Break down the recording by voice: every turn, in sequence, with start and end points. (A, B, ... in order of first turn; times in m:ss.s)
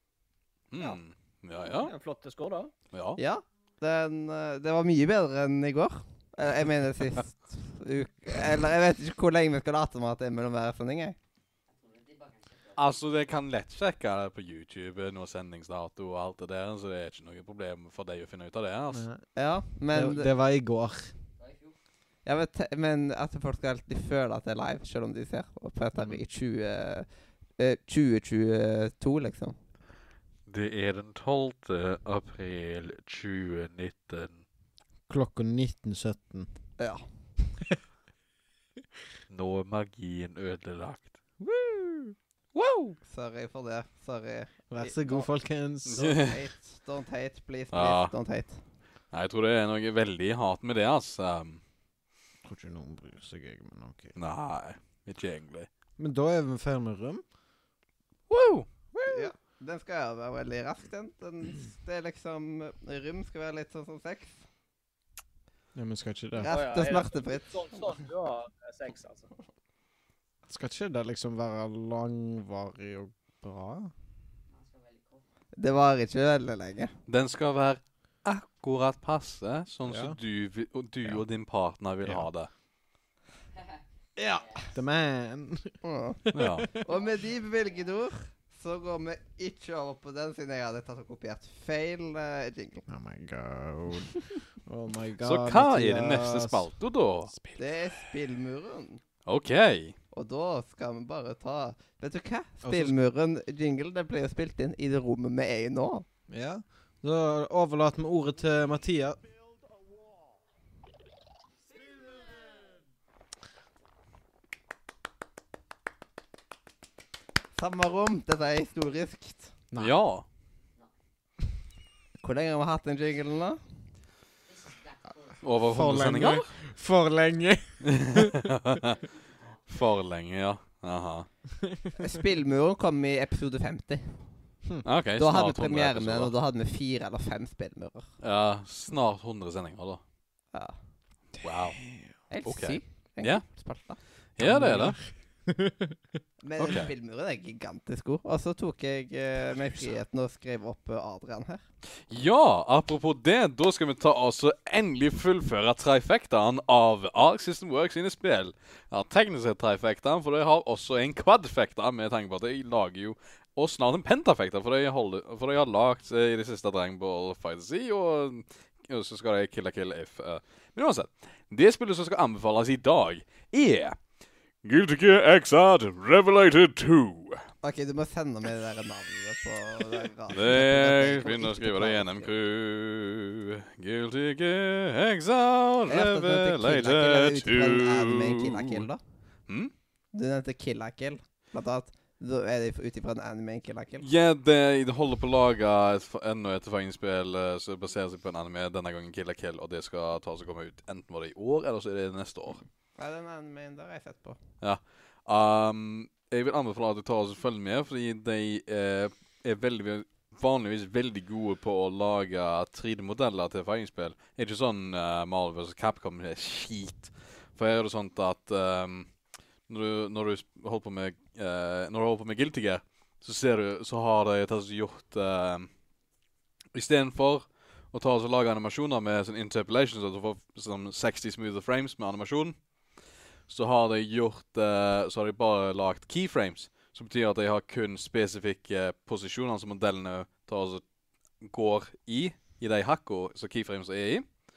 0:00.7-0:01.9 A
0:01.6-0:02.7 B
0:02.9-0:03.2 A
0:03.2-0:11.2 C
0:11.7-0:13.1 D
0:12.8-0:19.1 A
0:18.9-0:19.2 E
0:19.3-0:20.3 C
0:19.9-0:21.1 E
0:21.4-0:21.8 D
0:22.2-0:29.6 C
0:25.9-0:26.2 E
0:30.5-0:34.4 A
0:35.1-0:36.5 E
0:36.8-0:37.0 C
0:39.3-0:41.1 A
0:41.4-0:42.1 E
0:42.6-0:42.9 A
0:43.1-0:45.3 C
0:44.7-0:46.1 E
0:45.8-0:48.6 C
0:45.9-0:46.4 A
0:47.7-0:48.1 A
0:49.1-0:51.6 A
0:52.4-0:54.1 E
0:54.1-0:55.7 A
0:56.0-0:57.2 E
0:58.3-0:58.7 A
0:58.9-0:59.3 E
0:59.0-1:04.4 C
1:05.7-1:06.5 E
1:06.4-1:07.8 C
1:06.4-1:09.3 B
1:10.5-1:13.9 E
1:14.5-1:15.2 D
1:15.6-1:16.9 C
1:17.1-1:22.5 A
1:19.8-1:20.2 E
1:22.0-1:22.3 E
1:23.5-1:24.8 D
1:24.2-1:24.5 C
1:24.7-1:26.8 E
1:25.8-1:32.9 C
1:26.3-1:26.7 A
1:26.9-1:27.9 D
1:32.9-1:36.6 E
1:35.2-1:37.6 A
1:37.6-1:39.0 C
1:39.2-1:39.9 A
1:40.1-1:46.0 C
1:42.6-1:43.0 E
1:46.3-1:49.2 E
1:51.8-1:52.8 D
1:57.6-1:59.5 C
1:59.8-2:00.2 A
2:02.2-2:03.6 C
2:04.4-2:05.8 D
2:05.4-2:06.5 A
2:05.7-2:08.4 E
2:07.8-2:09.0 A
2:08.9-2:09.7 D
2:09.7-2:11.3 A
2:12.0-2:14.2 C
2:14.8-2:16.3 A
2:15.2-2:18.1 C
2:18.2-2:20.0 A
2:21.4-2:21.8 A
2:21.8-2:22.1 E
2:22.3-2:24.0 C
2:22.4-2:23.4 A
2:24.4-2:25.0 A
2:24.4-2:26.0 E
2:26.4-2:31.6 C
2:26.6-2:26.9 A
2:32.1-2:54.0 A
2:54.6-2:57.5 A
2:57.6-3:02.3 C
3:00.3-3:08.8 A
3:05.9-3:09.0 C
3:10.1-3:14.1 C
3:14.0-3:22.6 A
3:23.0-3:24.4 C
3:24.6-3:39.1 A
3:39.7-3:45.7 A
3:46.7-3:52.6 A
3:53.5-4:00.8 A
4:01.4-4:04.2 A